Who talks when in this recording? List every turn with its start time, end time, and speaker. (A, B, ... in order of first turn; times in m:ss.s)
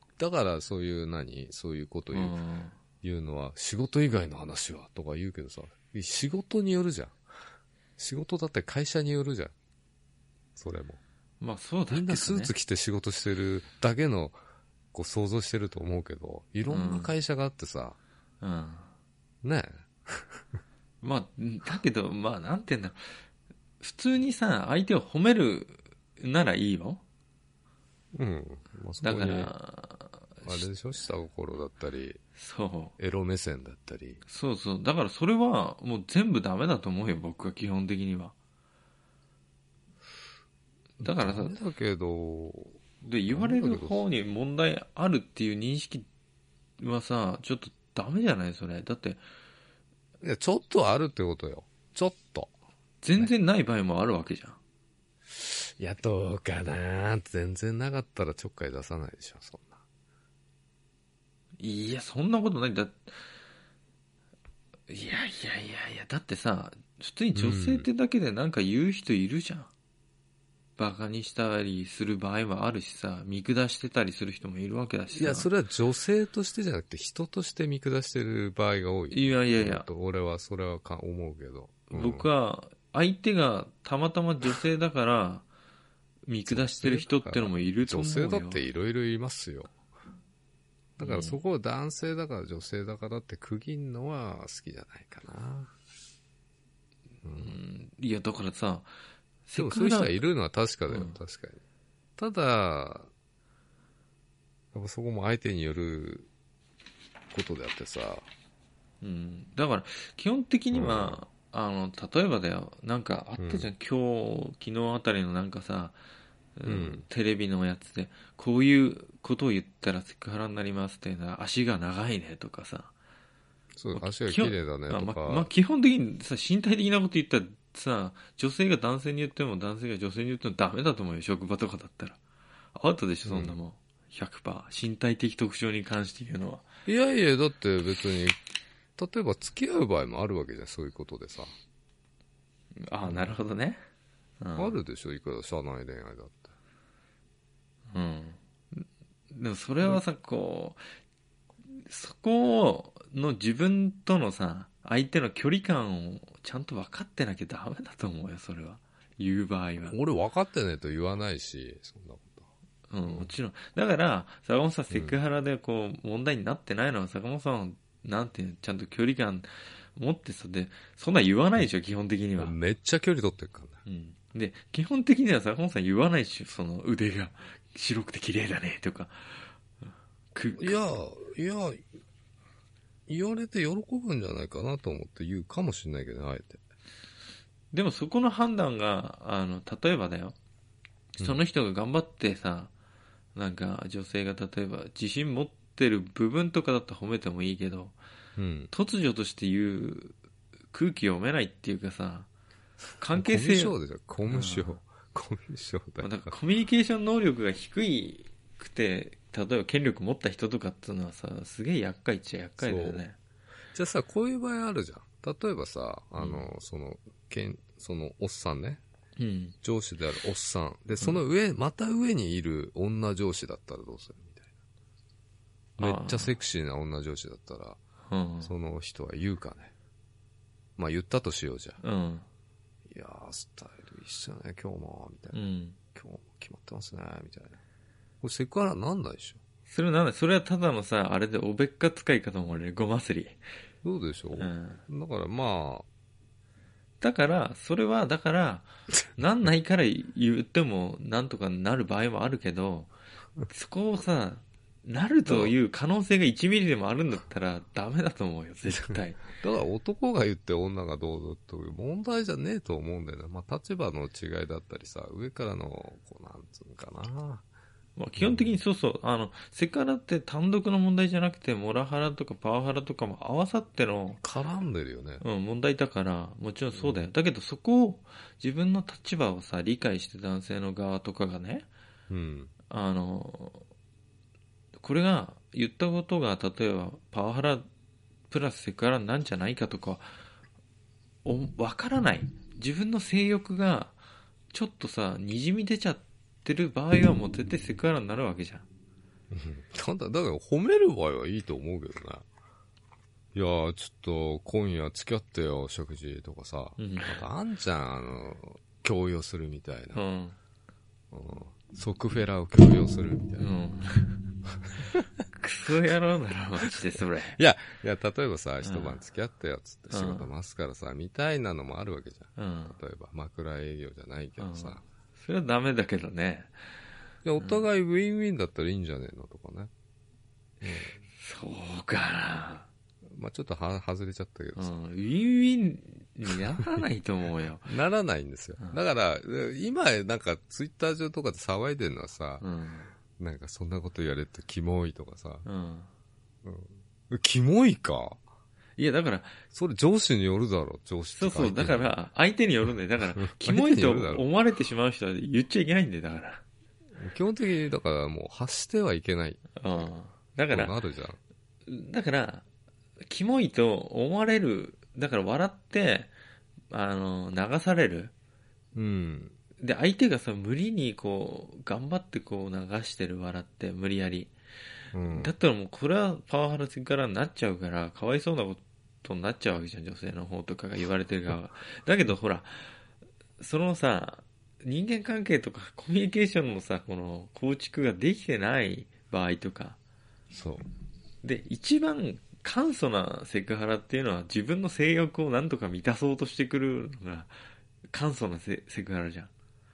0:00.2-0:02.4 A
0:02.1-0:02.8 B
0:03.0-0:07.2 A
0:08.0-0:09.5 A
0:10.6-0:11.0 A
0:11.4-0:12.5 B
0:11.9-0:14.4 A
0:14.9-0:18.0 A
0:16.7-0:17.1 B
0:18.4-0:18.9 B
0:19.4-0:20.4 A
0:21.0-0:23.1 B
0:23.8-0:27.0 B
0:28.1-0:29.5 A
0:29.0-0:30.6 B
0:30.4-0:32.2 A
0:32.4-0:32.9 B
0:33.0-0:34.2 A
0:34.3-0:38.3 B
0:41.0-0:44.0 A
0:41.0-0:41.6 B
0:43.0-0:46.1 B
0:46.8-0:49.2 B
0:50.2-0:52.5 A
0:53.0-0:54.6 B
0:55.3-0:59.8 A
1:01.6-1:03.1 B
1:04.9-1:09.7 B
1:07.3-1:07.9 A
1:10.8-1:15.5 B
1:15.1-1:22.3 A
1:19.1-1:19.9 B
1:21.9-1:25.4 B
1:26.2-1:28.6 B
1:26.5-1:29.7 A
1:31.0-1:35.7 A
1:31.0-1:31.4 B
1:37.2-1:37.6 A
1:37.4-1:38.9 B
1:39.4-1:40.2 B
1:39.6-1:41.6 A
1:40.9-1:41.2 B
1:42.2-1:43.1 A
1:44.7-1:46.3 A
1:47.3-1:48.2 A
1:49.0-1:56.0 B
1:50.7-1:51.2 A
1:53.4-1:53.7 A
1:56.6-2:02.9 B
1:56.6-1:57.0 A
2:03.8-2:05.5 A
2:03.9-2:12.2 B
2:12.7-2:16.6 B
2:13.2-2:13.6 A
2:16.9-2:18.4 A
2:19.0-2:21.5 A
2:22.8-2:23.8 B
2:23.1-2:23.4 A
2:24.4-2:24.7 B
2:24.6-2:26.6 A
2:27.9-2:30.8 B
2:31.7-2:39.9 B
2:39.9-2:42.5 A
2:42.9-2:52.6 B
2:43.0-2:43.3 A
2:44.9-2:45.2 A
2:52.4-2:53.8 A
2:53.9-2:59.5 B
3:00.3-3:00.8 B
3:00.6-3:01.8 A
3:03.1-3:06.6 A
3:07.7-3:10.4 B
3:11.1-3:12.7 B
3:13.4-3:18.0 B
3:18.4-3:18.7 A
3:18.7-3:20.2 B
3:20.7-3:22.3 B
3:23.0-3:23.7 B
3:23.1-3:26.3 A
3:24.3-3:24.8 B
3:26.0-3:33.2 B
3:32.6-3:33.0 A
3:33.7-3:38.8 A
3:36.2-3:36.5 B
3:39.2-3:39.6 B
3:39.6-3:44.4 A
3:45.8-3:47.8 A
3:45.8-3:46.3 B
3:48.1-3:48.5 B
3:48.4-3:49.7 A
3:50.8-3:51.8 A
3:51.8-3:52.2 B
3:52.9-3:55.4 A
3:55.3-3:55.8 B
3:55.9-3:57.6 A
3:58.2-3:59.4 A
3:59.7-4:03.4 B
4:03.8-4:05.9 A
4:04.4-4:04.8 B
4:07.0-4:12.9 B
4:13.5-4:19.2 B
4:15.2-4:15.6 A
4:18.9-4:27.4 A
4:28.0-4:34.2 B
4:28.2-4:28.6 A
4:34.2-4:35.2 A
4:35.2-4:41.7 B
4:36.7-4:37.1 A
4:42.1-4:42.5 A
4:42.7-4:43.6 B
4:44.8-4:47.6 B
4:48.3-4:50.1 B
4:51.2-4:54.0 B
4:54.5-4:58.6 B
4:59.3-5:02.2 A
5:03.3-5:10.0 A
5:06.8-5:07.2 B
5:09.9-5:10.4 B
5:11.1-5:13.5 A
5:13.4-5:14.2 B
5:14.8-5:15.1 A
5:15.3-5:17.4 B
5:17.3-5:24.8 A
5:18.6-5:19.0 B
5:19.9-5:20.3 B
5:22.4-5:22.8 B
5:24.4-5:26.6 B
5:27.2-5:29.7 A
5:27.4-5:27.6 B
5:30.6-5:31.0 A
5:31.2-5:32.7 B
5:33.1-5:34.7 A
5:34.6-5:37.7 B
5:37.6-5:42.4 A
5:42.4-5:42.9 B
5:43.1-5:45.4 A
5:45.4-5:45.9 B
5:46.4-5:48.2 A
5:48.8-5:49.4 B
5:49.5-5:51.9 A
5:51.1-5:56.4 B
5:53.2-5:54.2 A
5:57.0-5:59.9 A
5:59.6-6:00.7 B
6:00.5-6:01.2 A
6:01.7-6:02.4 B
6:03.0-6:06.1 B
6:06.7-6:08.1 B
6:08.7-6:09.4 A
6:09.6-6:14.3 B
6:14.9-6:15.3 A
6:15.1-6:22.7 B
6:23.4-6:29.8 B
6:30.3-6:30.7 A
6:31.2-6:37.3 B
6:37.9-6:39.3 B